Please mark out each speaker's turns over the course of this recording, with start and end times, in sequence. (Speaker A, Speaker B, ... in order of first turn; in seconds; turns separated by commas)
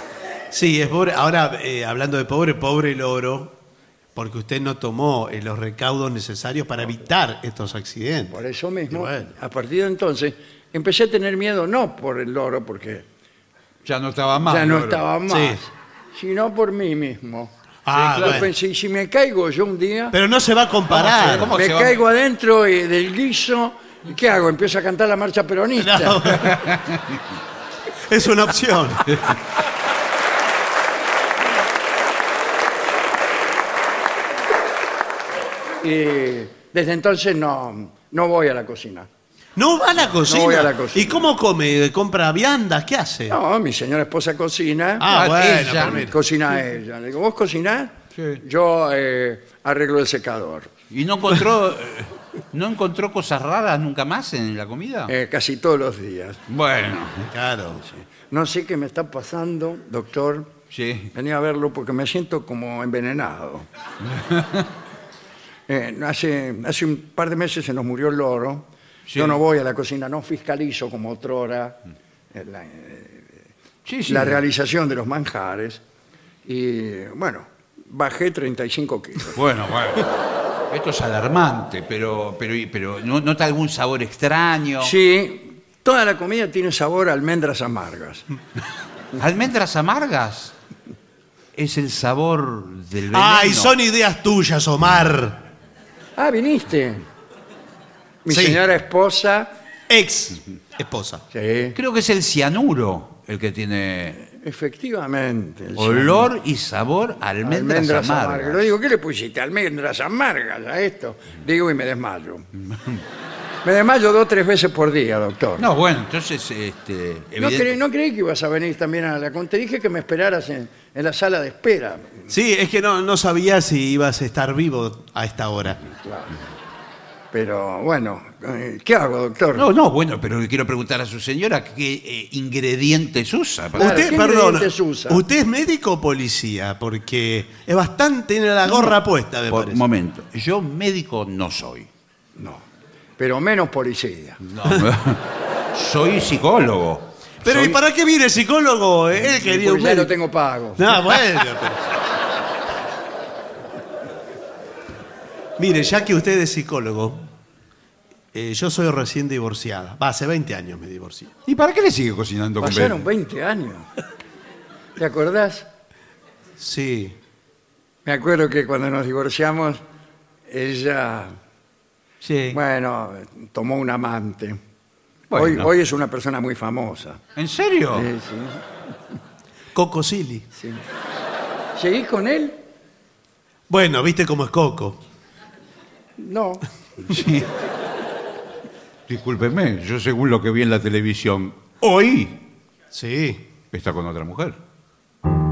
Speaker A: 0.5-3.6, Speaker A: 4.1-8.4, Speaker B: 8.3-13.1, Speaker A: 8.9-9.3, Speaker C: 13.8-15.0, Speaker B: 14.4-17.5, Speaker A: 15.3-15.6, Speaker A: 17.9-18.5, Speaker C: 17.9-18.5, Speaker B: 18.1-20.1, Speaker A: 20.1-21.5, Speaker C: 20.9-22.0, Speaker B: 21.5-26.5, Speaker A: 25.8-26.7, Speaker C: 26.4-27.2, Speaker A: 28.1-29.1, Speaker B: 35.8-39.1, Speaker A: 39.6-43.4, Speaker B: 40.2-41.3, Speaker B: 43.3-45.1, Speaker A: 45.0-46.2, Speaker C: 45.1-46.0, Speaker B: 45.7-50.7, Speaker C: 48.2-48.4, Speaker C: 50.9-55.1, Speaker B: 55.1-56.4, Speaker C: 56.5-57.3, Speaker A: 57.3-57.8, Speaker B: 57.8-60.5, Speaker C: 60.7-61.1, Speaker B: 61.1-63.6, Speaker C: 64.1-64.7, Speaker B: 65.7-71.8, Speaker C: 69.1-69.4, Speaker B: 72.3-73.4, Speaker C: 73.8-74.4, Speaker B: 74.1-75.8, Speaker B: 76.5-79.4, Speaker C: 79.3-84.9, Speaker B: 84.8-88.2, Speaker C: 89.2-90.5, Speaker C: 91.5-93.7, Speaker A: 93.1-95.4, Speaker B: 96.2-97.0, Speaker B: 98.2-99.5, Speaker A: 98.3-98.6, Speaker A: 99.9-101.2, Speaker B: 101.3-101.8, Speaker C: 101.8-104.2, Speaker B: 104.2-106.3, Speaker C: 105.8-108.7, Speaker B: 107.4-112.5, Speaker C: 112.7-113.0, Speaker B: 113.6-115.7, Speaker C: 115.6-117.8, Speaker B: 117.4-122.3, Speaker A: 122.3-125.8, Speaker B: 126.0-126.3, Speaker B: 127.3-129.7, Speaker C: 129.6-134.1, Speaker A: 133.8-139.8, Speaker B: 133.8-135.2, Speaker C: 138.7-139.0, Speaker C: 139.5-141.9, Speaker B: 142.3-142.6, Speaker B: 143.2-144.4, Speaker C: 144.4-147.6, Speaker A: 147.4-150.1, Speaker B: 149.3-151.0, Speaker A: 150.8-151.8, Speaker A: 155.6-157.3, Speaker A: 158.3-161.3, Speaker C: 161.5-163.0, Speaker B: 162.6-163.9, Speaker B: 165.0-165.7, Speaker A: 166.6-167.2, Speaker B: 168.1-169.8, Speaker B: 170.5-171.3, Speaker C: 172.2-172.6, Speaker B: 172.5-174.6, Speaker C: 175.3-175.7, Speaker B: 175.3-177.2, Speaker C: 177.3-178.1, Speaker B: 177.9-178.6, Speaker A: 179.7-180.4, Speaker B: 180.6-180.8, Speaker B: 181.8-182.6, Speaker A: 183.7-185.0, Speaker B: 186.2-186.7, Speaker C: 187.1-187.5, Speaker C: 189.1-192.4, Speaker A: 192.9-193.4, Speaker C: 193.7-194.6